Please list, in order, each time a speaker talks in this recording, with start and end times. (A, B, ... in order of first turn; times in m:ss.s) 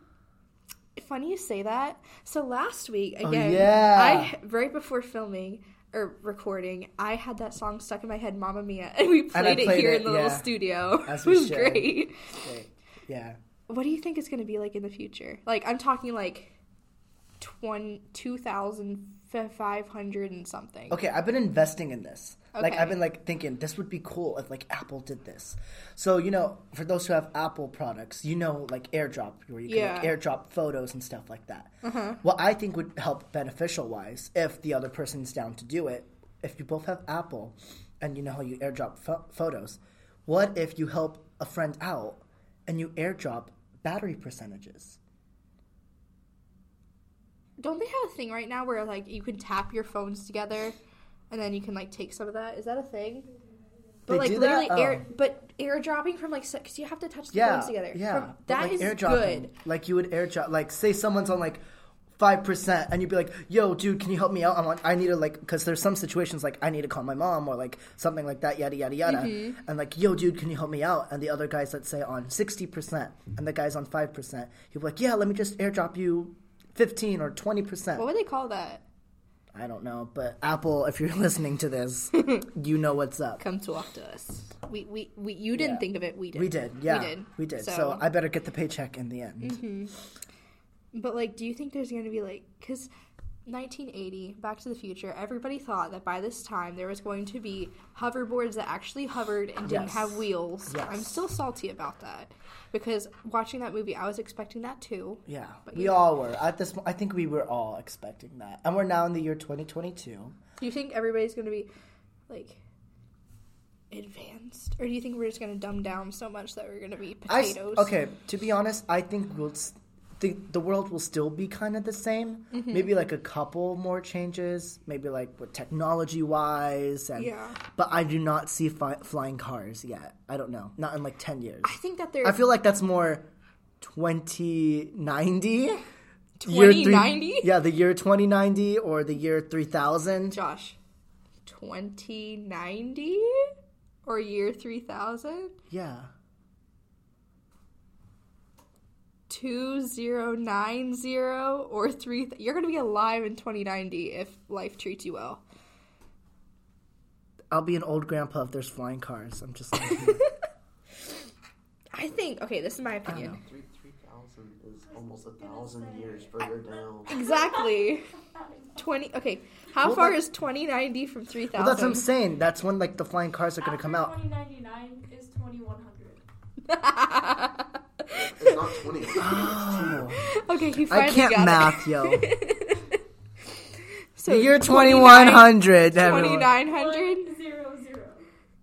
0:01.0-0:12.3 A
0:03.2-0:04.3 B
0:09.3-0:13.4 B
0:13.7-0:16.6 A
0:17.4-0:21.0 A
0:20.9-0:45.0 B
0:22.5-0:23.0 A
0:29.7-0:30.1 A
0:31.8-0:32.2 A
0:47.6-0:50.8 A
0:51.3-0:53.3 A
0:54.1-0:55.1 B
0:54.1-0:59.5 A
0:57.3-1:01.6 B
1:02.2-1:18.1 B
1:09.0-1:09.6 A
1:18.0-1:18.8 A
1:19.5-1:23.4 B
1:22.2-1:22.5 A
1:23.4-1:28.1 A
1:25.5-1:29.6 B
1:29.4-1:29.9 A
1:30.9-1:32.9 A
1:33.5-1:46.0 A
1:39.6-1:41.1 B
1:45.3-1:50.4 B
1:50.6-1:51.7 A
1:52.3-1:52.6 A
1:53.9-1:57.9 A
1:57.3-2:13.3 B
2:02.5-2:02.9 A
2:07.2-2:07.6 A
2:11.6-2:12.4 A
2:13.8-2:15.8 B
2:16.4-2:17.5 A
2:16.4-2:20.4 B
2:20.3-2:20.8 A
2:21.5-2:23.5 A
2:24.1-2:25.6 A
2:25.7-2:26.1 B
2:29.3-2:35.4 A
2:37.5-2:40.3 B
2:39.9-2:40.3 A
2:41.9-2:43.4 A
2:43.1-2:43.4 B
2:43.3-2:47.2 C
2:45.4-2:46.4 D
2:47.1-2:48.1 A
2:48.8-2:52.1 A
2:49.8-2:50.2 B
2:51.5-2:54.2 B
2:53.6-2:56.2 D
2:56.6-2:58.5 A
2:58.1-3:00.2 C
2:59.2-3:00.2 B
3:00.2-3:03.0 A
3:00.9-3:02.3 B
3:04.2-3:07.4 A
3:04.3-3:06.5 B
3:06.4-3:08.2 D